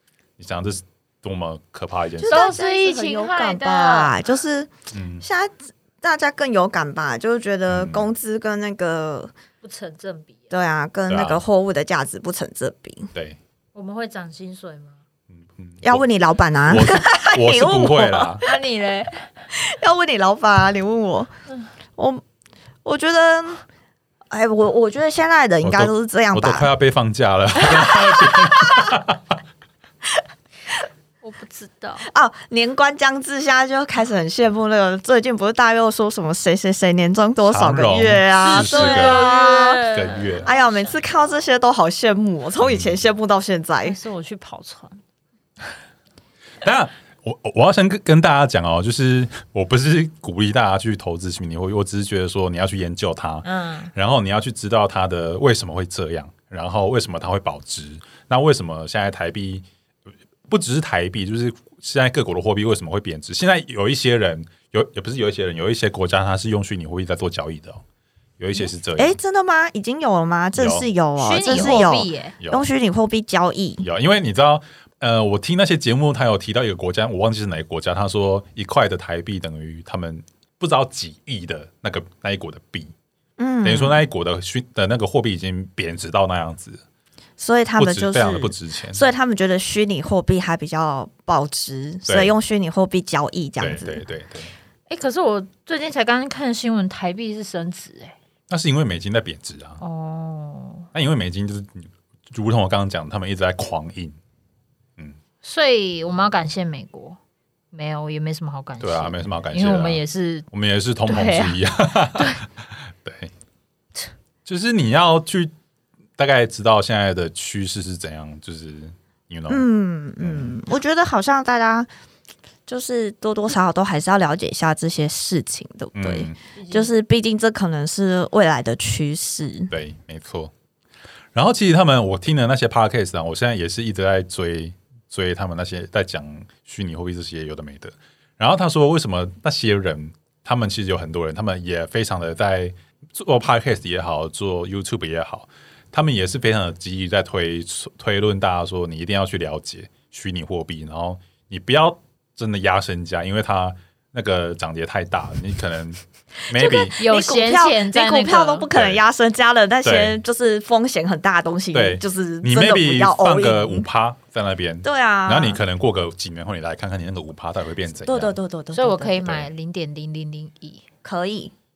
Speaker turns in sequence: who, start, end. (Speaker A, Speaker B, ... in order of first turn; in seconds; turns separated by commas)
Speaker A: 0.4-2.5, Speaker B: 2.2-9.3, Speaker C: 2.3-4.2, Speaker A: 4.9-5.2, Speaker A: 7.7-8.1, Speaker C: 9.6-10.5, Speaker B: 10.5-13.1, Speaker A: 11.1-11.4, Speaker C: 13.7-15.0, Speaker A: 15.3-16.0, Speaker B: 15.8-18.4, Speaker A: 16.6-18.4, Speaker C: 18.4-19.3, Speaker B: 19.5-21.3, Speaker B: 21.9-22.2, Speaker B: 22.8-23.6, Speaker B: 24.3-26.7, Speaker A: 25.6-29.4, Speaker B: 27.7-28.9, Speaker C: 31.2-32.0, Speaker B: 32.0-39.8, Speaker A: 37.4-39.2, Speaker C: 38.4-41.0, Speaker A: 39.9-40.5, Speaker B: 40.4-44.0, Speaker A: 42.6-43.0, Speaker C: 43.8-45.0, Speaker A: 46.6-59.6, Speaker C: 53.4-53.9, Speaker A: 60.5-67.8, Speaker A: 68.4-69.2, Speaker B: 69.0-73.8, Speaker A: 70.5-70.9, Speaker C: 71.2-72.3, Speaker A: 71.4-72.7, Speaker A: 73.8-82.9, Speaker B: 83.4-84.0, Speaker A: 83.6-86.8, Speaker B: 87.4-94.0, Speaker A: 87.8-89.0, Speaker A: 92.1-92.3, Speaker A: 93.6-94.5, Speaker C: 94.9-98.1, Speaker A: 98.5-99.8, Speaker C: 99.8-100.9, Speaker A: 100.9-104.2, Speaker C: 105.4-107.2, Speaker C: 107.7-110.5, Speaker A: 108.8-113.3, Speaker C: 111.1-112.4, Speaker A: 114.4-115.5, Speaker A: 116.2-119.7, Speaker B: 119.5-121.9, Speaker A: 120.2-120.6, Speaker B: 122.7-129.7, Speaker A: 125.9-126.4, Speaker C: 126.5-126.9, Speaker A: 129.7-130.5, Speaker A: 131.3-156.9, Speaker B: 156.5-163.8, Speaker C: 156.8-158.7, Speaker A: 158.7-159.0, Speaker A: 159.8-160.2, Speaker A: 161.7-168.3, Speaker B: 164.8-165.6, Speaker B: 168.0-169.3, Speaker C: 168.7-170.8, Speaker B: 171.0-171.5